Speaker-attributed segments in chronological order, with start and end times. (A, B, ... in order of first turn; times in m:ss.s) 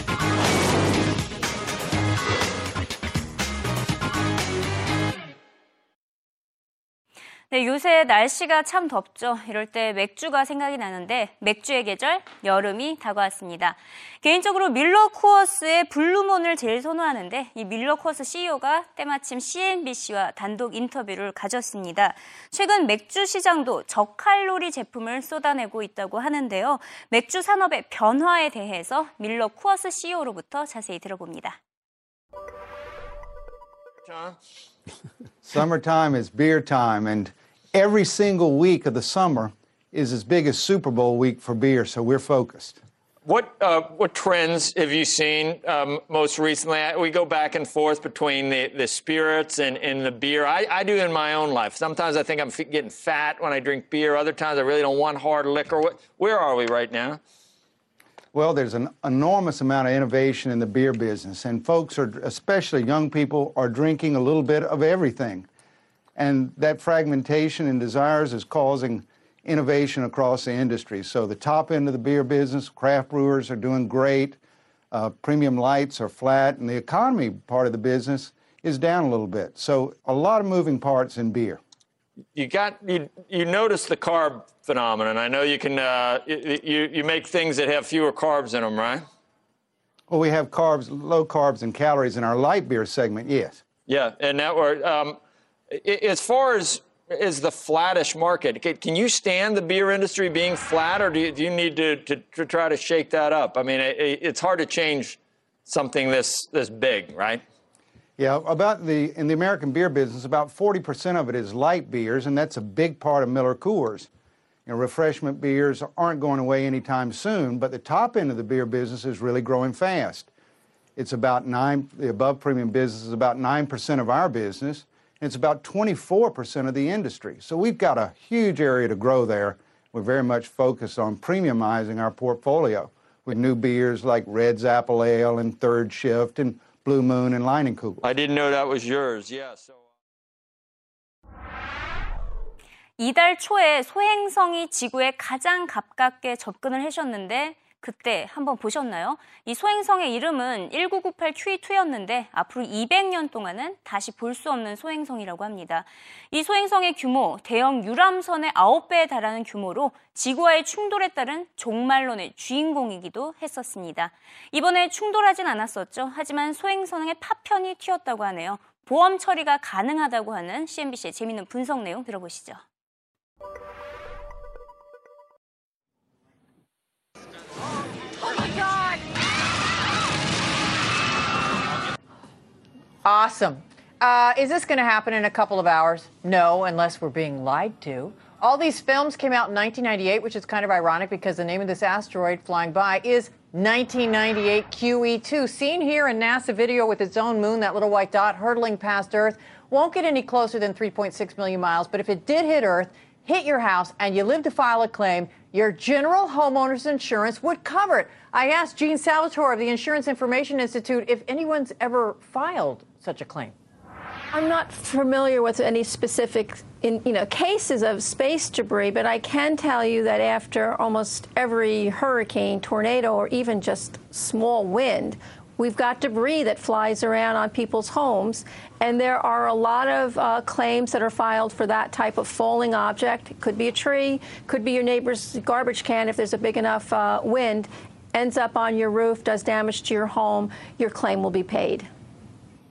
0:07.5-0:31.6 A
0:34.1-0:34.4 B
0:35.4-0:42.8 C
0:43.2-0:57.2 B
0:58.3-1:05.5 C
1:06.2-1:14.4 C
1:14.9-1:21.6 C
1:22.4-1:29.1 B
1:30.1-1:33.6 C
1:33.9-1:35.2 B
1:35.7-1:47.4 B
1:48.2-1:54.1 C
1:54.7-2:00.3 C
2:01.0-2:18.0 C
2:18.0-2:19.8 B
2:23.0-2:52.6 A
3:03.0-3:33.5 D
3:34.3-4:01.9 E